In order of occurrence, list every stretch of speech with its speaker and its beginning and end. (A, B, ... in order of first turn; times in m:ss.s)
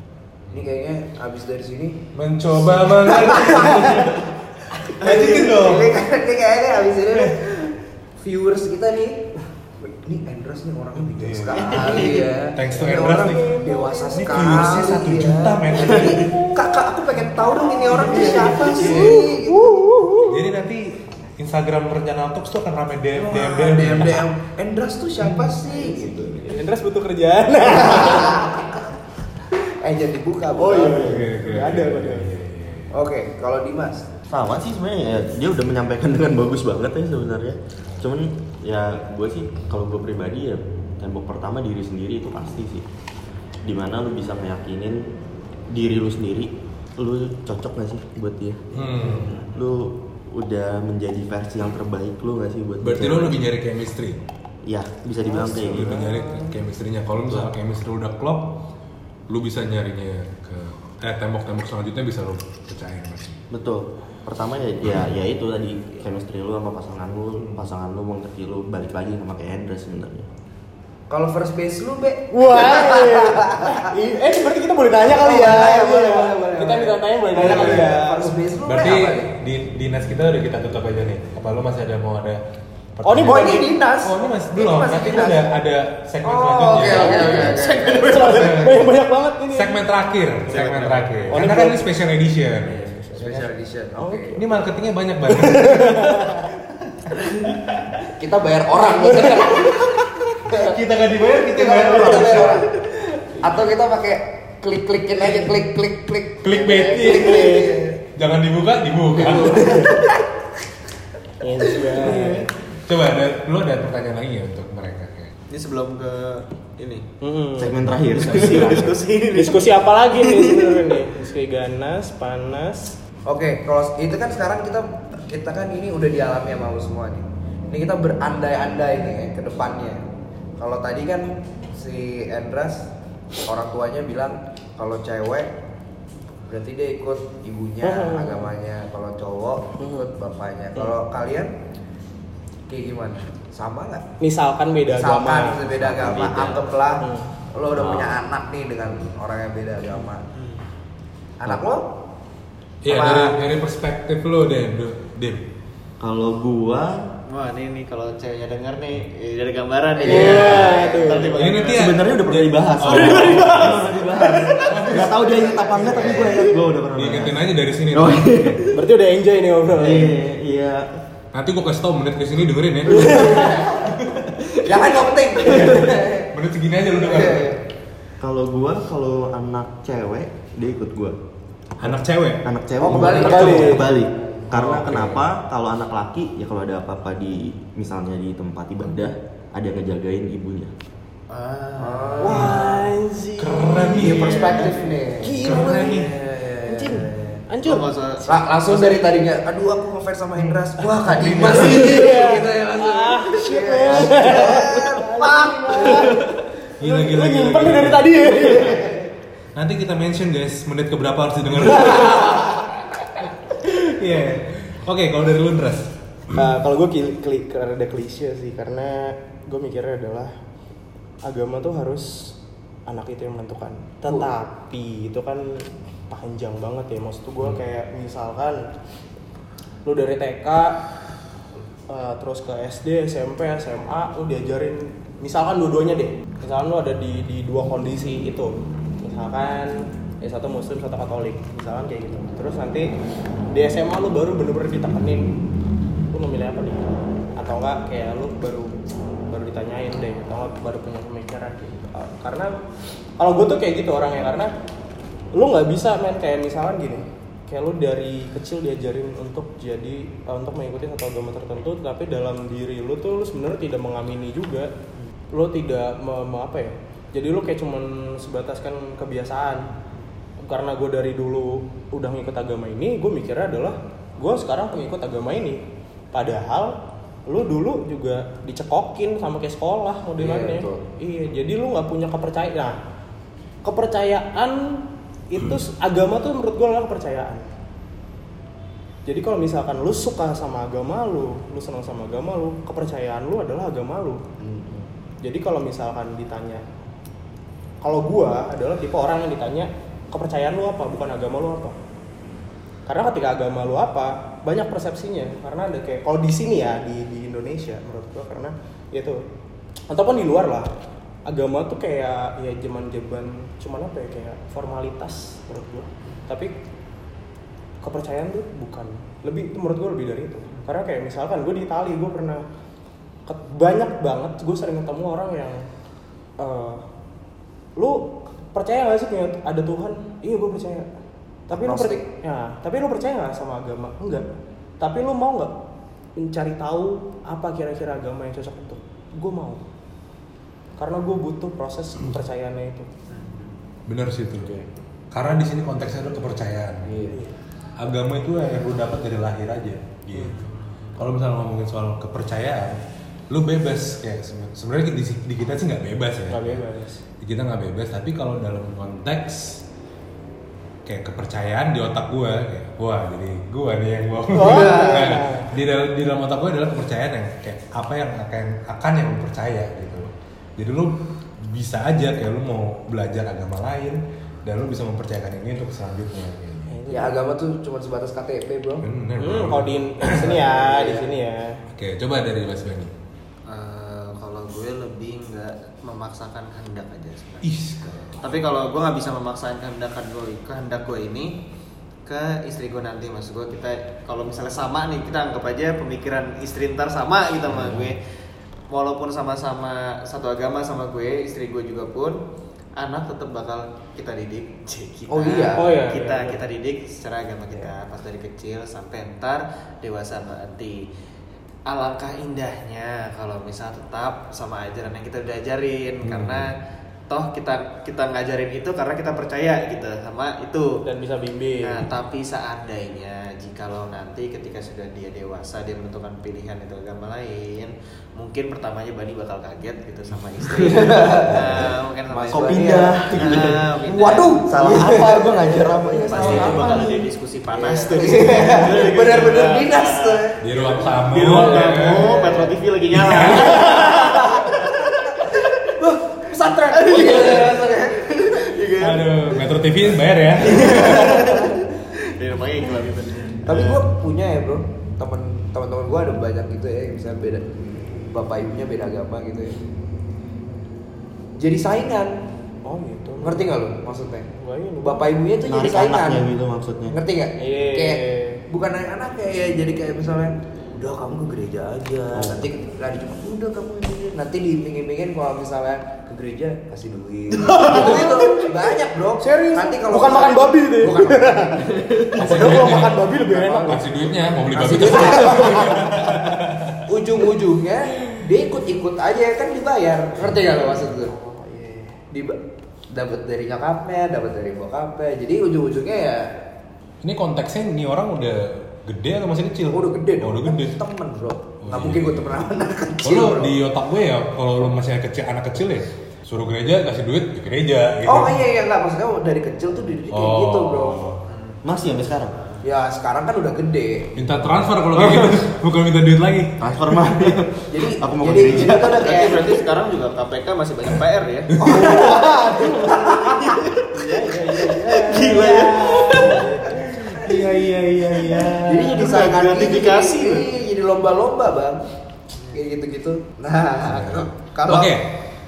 0:00.5-0:00.7 A
0:00.5-0:02.0 B
0:02.2-0:04.3 A
0:03.0-0:04.1 B
0:04.8-0:06.0 A
0:04.9-0:19.8 B
0:11.0-0:16.4 A
0:11.6-0:12.3 C
0:13.3-0:14.8 D
0:17.8-0:20.5 D
0:18.8-0:19.1 A
0:20.2-0:24.3 A
0:23.1-0:26.6 B
0:25.3-0:25.5 A
0:26.4-0:28.5 D
0:27.7-0:28.9 B
0:29.6-0:31.3 B
0:30.6-0:32.3 D
0:30.9-0:32.9 A
0:32.9-0:34.1 B
0:34.3-0:42.8 E
0:43.6-0:45.0 E
0:45.7-0:48.8 E
0:48.7-0:49.4 A
0:49.4-0:53.4 E
0:52.8-0:54.2 A
0:54.7-0:56.0 E
0:55.3-0:56.6 D
0:55.4-0:58.6 A
0:57.2-0:57.5 E
0:59.3-1:03.4 A
1:03.5-1:10.3 E
1:11.1-1:13.9 B
1:12.3-1:18.4 D
1:15.1-1:19.3 B
1:17.4-1:17.9 A
1:18.6-1:22.4 A
1:23.0-1:28.9 A
1:23.0-1:23.7 D
1:23.2-1:25.5 B
1:26.2-1:28.8 B
1:27.1-1:29.8 D
1:29.5-1:33.5 A
1:30.5-1:31.5 C
1:31.3-1:31.9 D
1:32.8-1:34.4 B
1:34.0-1:34.4 D
1:34.3-1:36.4 A
1:35.3-1:36.5 D
1:38.1-1:40.8 B
1:40.5-1:42.7 A
1:41.3-1:42.7 B
1:43.4-1:48.0 B
1:46.4-1:47.6 A
1:46.8-1:47.8 D
1:48.1-1:49.9 A
1:49.3-1:50.1 B
1:49.6-1:50.0 D
1:51.4-1:52.5 D
1:52.9-1:55.3 A
1:55.5-1:57.1 C
1:57.2-2:03.0 D
1:57.6-1:59.0 E
1:58.1-2:01.0 C
2:03.3-2:10.0 B
2:10.6-2:12.9 B
2:13.4-2:15.5 B
2:16.5-2:21.5 B
2:17.8-2:18.5 D
2:19.8-2:20.1 D
2:22.7-2:24.0 B
2:24.2-2:25.6 D
2:24.9-2:30.2 B
2:25.8-2:26.6 E
2:27.0-2:27.3 D
2:27.8-2:28.2 E
2:30.3-2:30.6 C
2:31.4-2:31.9 B
2:32.8-2:35.4 A
2:32.9-2:33.4 B
2:36.0-2:37.1 E
2:37.3-2:42.1 C
2:40.0-2:41.2 B
2:40.0-2:41.5 D
2:41.3-2:43.9 A
2:41.7-2:48.8 E
2:42.9-2:43.7 C
2:44.2-2:44.6 D
2:44.7-2:45.2 A
2:45.2-2:46.5 B
2:46.9-2:48.6 A
2:48.7-2:50.2 D
2:49.7-2:50.9 E
2:51.3-2:54.6 A
2:52.9-2:53.7 D
2:53.2-2:53.9 B
2:54.6-2:56.3 B
2:55.5-2:57.6 A
2:57.0-2:57.6 B
2:58.2-3:01.2 E
3:01.8-3:03.4 A
3:02.4-3:10.7 E
3:02.8-3:04.0 B
3:03.2-3:03.9 D
3:04.6-3:05.1 A
3:11.3-3:12.8 C
3:11.8-3:12.8 B
3:12.2-3:14.0 D
3:13.4-3:14.6 A
3:13.8-3:17.4 B
3:14.0-3:15.0 C
3:15.2-3:16.1 D
3:15.4-3:16.1 A
3:16.7-3:18.4 D
3:17.6-3:19.0 C
3:18.2-3:26.2 B
3:21.1-3:21.9 A
3:21.4-3:28.9 D
3:26.8-3:28.5 A
3:28.4-3:29.1 B
3:29.6-3:32.6 A
3:32.0-3:32.5 D
3:33.6-3:36.4 A
3:36.3-3:40.3 D
3:41.2-3:42.4 D
3:42.9-3:48.6 D
3:49.8-3:50.8 D
3:51.9-4:02.9 D
4:03.5-4:05.3 D
4:06.1-4:12.5 D
4:13.2-4:14.5 D
4:15.3-4:24.7 D
4:25.3-4:29.7 D
4:30.4-4:36.8 D
4:37.3-4:42.8 D
4:40.2-4:40.8 B
4:43.6-4:47.5 D
4:49.1-4:54.2 D
4:54.4-4:54.9 B
4:55.2-4:56.6 D
4:57.8-5:01.8 D
5:02.9-5:09.2 D
5:09.9-5:10.7 D
5:11.3-5:16.6 D
5:17.8-5:22.4 D
5:23.3-5:25.6 D
5:26.4-5:26.8 D
5:27.8-5:30.9 D
5:31.5-5:34.2 D
5:31.5-5:32.0 B
5:34.8-5:35.5 D
5:36.2-5:39.6 D
5:40.8-5:42.9 D
5:43.1-5:43.5 C
5:43.9-5:46.9 A
5:46.8-5:47.2 B
5:47.8-5:52.8 A
5:50.1-5:50.4 D
5:50.3-5:50.9 C
5:53.3-5:56.6 A
5:56.3-5:57.0 D
5:57.2-5:59.6 A
6:00.8-6:16.8 A
6:04.3-6:05.5 D
6:04.4-6:05.1 B
6:16.7-6:17.2 D
6:16.9-6:18.8 B
6:18.8-6:20.5 A
6:19.2-6:21.6 D
6:20.2-6:21.1 B
6:21.7-6:22.9 A
6:23.5-6:27.5 C
6:27.4-6:28.4 A
6:28.2-6:31.3 C
6:32.1-6:38.0 C
6:38.7-6:42.2 C
6:42.8-6:50.9 C
6:45.1-6:45.7 B
6:45.6-6:46.4 D
6:51.7-6:56.5 C
6:56.0-6:56.5 A
6:57.1-7:00.8 C
7:00.8-7:01.8 D
7:01.6-7:14.4 C
7:10.6-7:11.4 B
7:10.6-7:11.4 E
7:12.1-7:16.9 B
7:12.3-7:13.7 E
7:14.4-7:17.0 E
7:16.1-7:25.3 C
7:16.2-7:16.6 A
7:17.5-7:22.5 B
7:20.4-7:22.1 A
7:22.9-7:23.9 A
7:23.5-7:24.7 B
7:25.2-7:29.4 B
7:26.8-7:27.6 C
7:28.8-7:31.4 A
7:30.4-7:31.6 B
7:30.4-7:33.7 C
7:33.4-7:37.5 B
7:38.1-7:39.6 B
7:41.4-7:42.2 B
7:42.6-7:43.5 D
7:43.2-7:44.3 B
7:44.4-7:45.0 D
7:44.8-7:46.3 B
7:45.4-7:47.0 E
7:46.9-8:01.7 B
7:47.4-7:48.4 D
7:52.1-7:52.5 E
7:57.5-7:58.0 C
7:57.5-7:58.5 D
7:59.2-8:04.0 D
8:02.2-8:03.1 A
8:02.3-8:02.6 B
8:03.3-8:03.9 B
8:03.6-8:06.9 A
8:04.5-8:06.2 B
8:05.1-8:06.1 D
8:06.8-8:11.1 B
8:11.0-8:12.0 D
8:12.1-8:12.4 B
8:12.9-8:16.4 B
8:17.0-8:20.8 A
8:19.7-8:23.5 B
8:21.6-8:22.5 A
8:23.0-8:28.4 A
8:28.0-8:31.1 B
8:30.1-8:31.2 A
8:31.3-8:32.6 C
8:31.6-8:32.4 E
8:32.6-8:34.2 B
8:34.2-8:37.4 A
8:34.9-8:35.4 E
8:36.6-8:39.1 E
8:37.7-8:39.6 B
8:38.7-8:41.6 C
8:41.5-8:41.9 A
8:41.6-8:43.6 B
8:41.7-8:43.0 D
8:43.2-8:46.5 C
8:43.9-8:49.0 D
8:47.2-8:50.5 C
8:48.6-8:51.9 B
8:52.5-8:55.0 B
8:53.8-8:55.2 A